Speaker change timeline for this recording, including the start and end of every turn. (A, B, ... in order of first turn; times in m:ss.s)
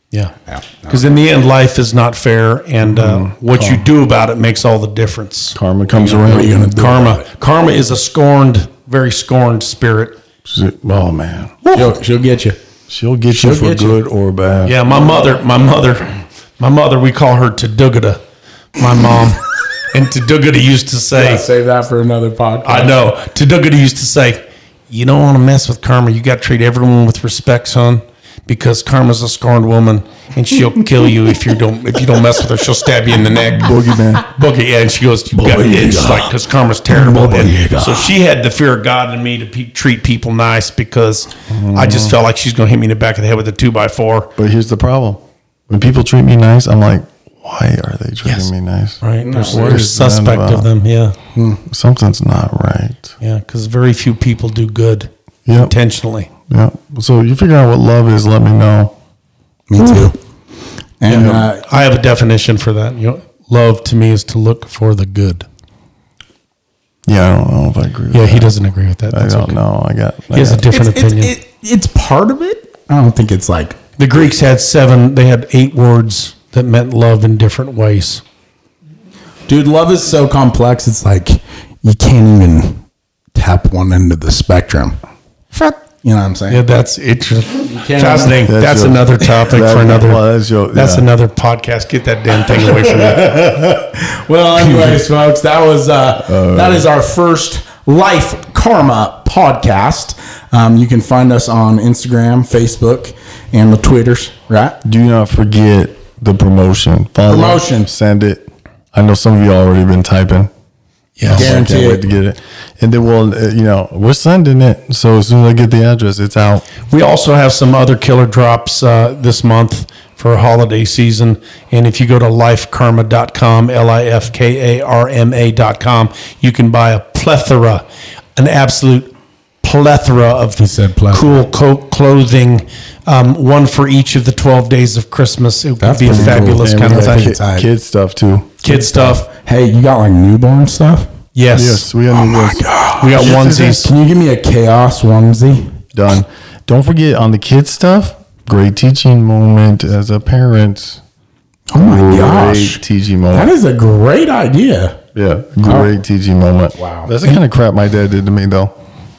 0:00.5-0:01.1 A
0:00.9-0:10.2 B
0:02.8-0:03.8 C
0:05.5-0:06.7 C
0:06.0-0:07.2 A
0:10.4-0:11.8 C
0:11.7-0:12.6 A
0:12.9-0:14.8 C
0:13.4-0:13.8 A
0:13.4-0:13.7 B
0:14.6-0:18.2 B
0:18.8-0:21.4 B
0:21.2-0:23.0 A
0:22.6-0:44.3 B
0:33.6-0:34.2 C
0:35.3-0:36.3 A
0:36.9-0:38.1 A
0:41.5-0:42.2 C
0:44.4-0:50.7 C
0:48.2-0:48.5 B
0:49.0-0:51.2 B
0:49.2-0:49.8 A
0:51.3-0:51.6 A
0:51.7-0:53.1 C
0:53.2-0:56.3 B
0:55.4-0:55.7 C
0:56.5-0:58.9 C
0:59.7-1:00.2 A
1:01.0-1:01.6 A
1:01.0-1:05.5 B
1:01.1-1:01.4 C
1:07.1-1:08.5 C
1:08.1-1:09.6 B
1:09.1-1:10.7 C
1:10.3-1:11.3 B
1:10.7-1:13.8 A
1:14.0-1:18.2 B
1:19.5-1:22.8 A
1:23.3-1:25.0 A
1:25.5-1:26.6 A
1:26.5-1:33.5 B
1:27.7-1:28.5 A
1:28.4-1:31.1 C
1:32.5-1:44.8 A
1:36.2-1:36.9 C
1:44.8-1:50.5 C
1:47.3-1:47.9 A
1:51.2-1:51.5 B
1:51.3-1:56.7 C
1:51.3-1:52.0 A
1:56.9-2:07.8 B
2:08.4-2:09.1 B
2:09.6-2:17.3 B
2:10.6-2:11.2 A
2:15.8-2:17.7 A
2:16.0-2:18.5 C
2:18.6-2:21.1 A
2:18.6-2:19.2 B
2:21.3-2:21.8 B
2:21.5-2:23.8 C
2:22.1-2:25.8 A
2:23.0-2:23.9 B
2:25.9-2:31.0 C
2:31.7-2:35.0 A
2:31.7-2:33.5 C
2:35.1-2:38.8 C
2:35.6-2:35.9 A
2:36.8-2:37.1 A